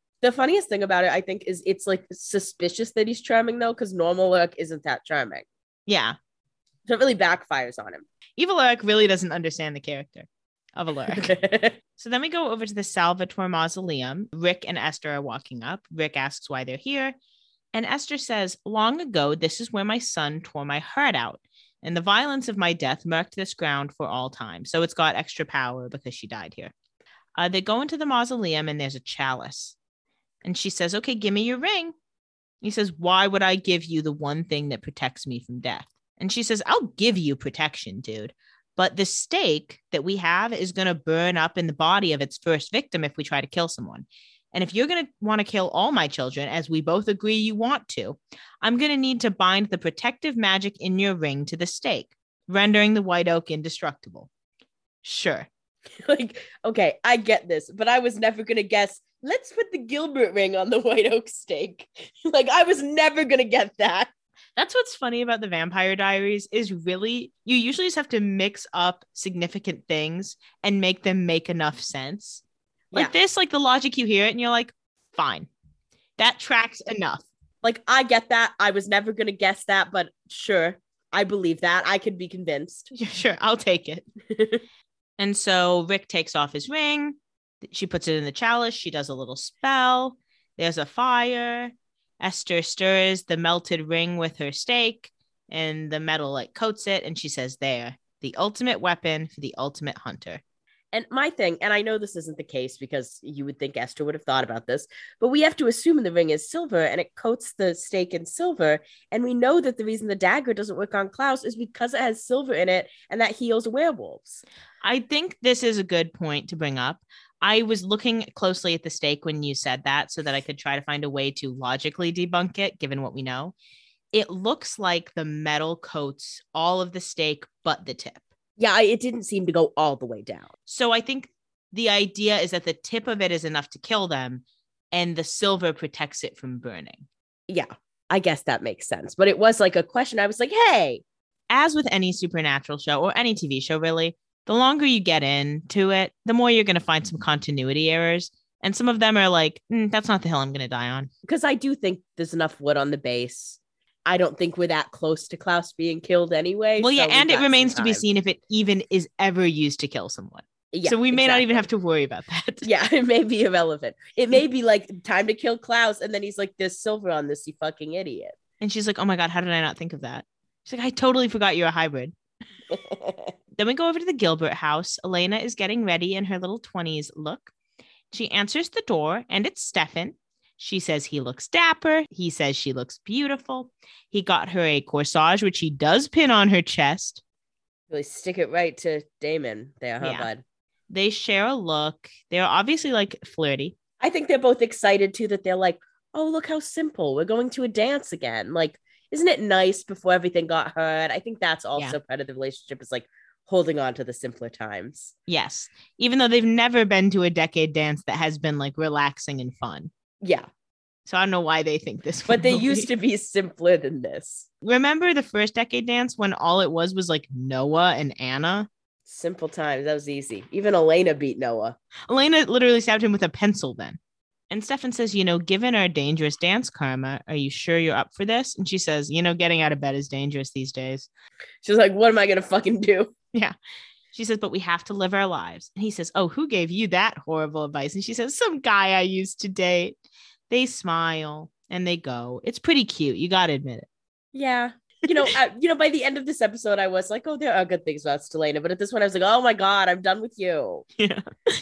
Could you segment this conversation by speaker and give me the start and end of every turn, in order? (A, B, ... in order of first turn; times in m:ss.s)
0:00.2-0:05.5 A
0:05.9-0:06.2 B
0:06.9-0:08.0 A
0:08.4-0:11.4 B
0:11.1-0:11.8 A
0:12.0-0:17.2 B
0:17.7-0:26.7 B
0:27.4-0:29.8 B
0:30.4-0:31.9 B
0:32.6-0:54.3 B
0:55.0-0:55.5 B
0:56.0-1:04.1 A
1:04.6-1:12.4 B
1:12.9-1:15.5 B
1:16.2-1:17.2 B
1:17.6-1:22.9 A
1:22.9-1:24.1 B
1:25.2-1:40.4 B
1:40.9-1:54.4 A
1:54.8-2:03.6 B
2:04.1-2:08.2 B
2:08.6-2:10.5 A
2:10.7-2:17.1 B
2:17.5-2:21.0 A
2:21.5-2:31.1 B
2:31.2-2:38.0 A
2:36.8-2:42.7 B
2:40.7-2:41.6 A
2:42.6-2:48.4 A
2:48.6-2:52.2 B
2:52.7-2:53.3 A
2:53.6-2:57.5 B
2:58.1-3:07.2 B
3:07.9-3:10.4 A
3:10.0-3:10.3 B
3:10.9-3:13.8 B
3:14.0-3:25.1 A
3:25.3-3:29.9 B
3:30.2-3:30.5 A
3:31.1-3:32.9 B
3:32.3-3:34.5 A
3:34.6-3:38.7 B
3:39.1-3:41.8 A
3:42.1-3:44.0 B
3:44.5-3:51.1 B
3:51.6-3:53.1 A
3:54.1-4:00.0 B
4:00.5-4:03.9 B
4:04.3-4:10.9 A
4:11.0-4:11.2 B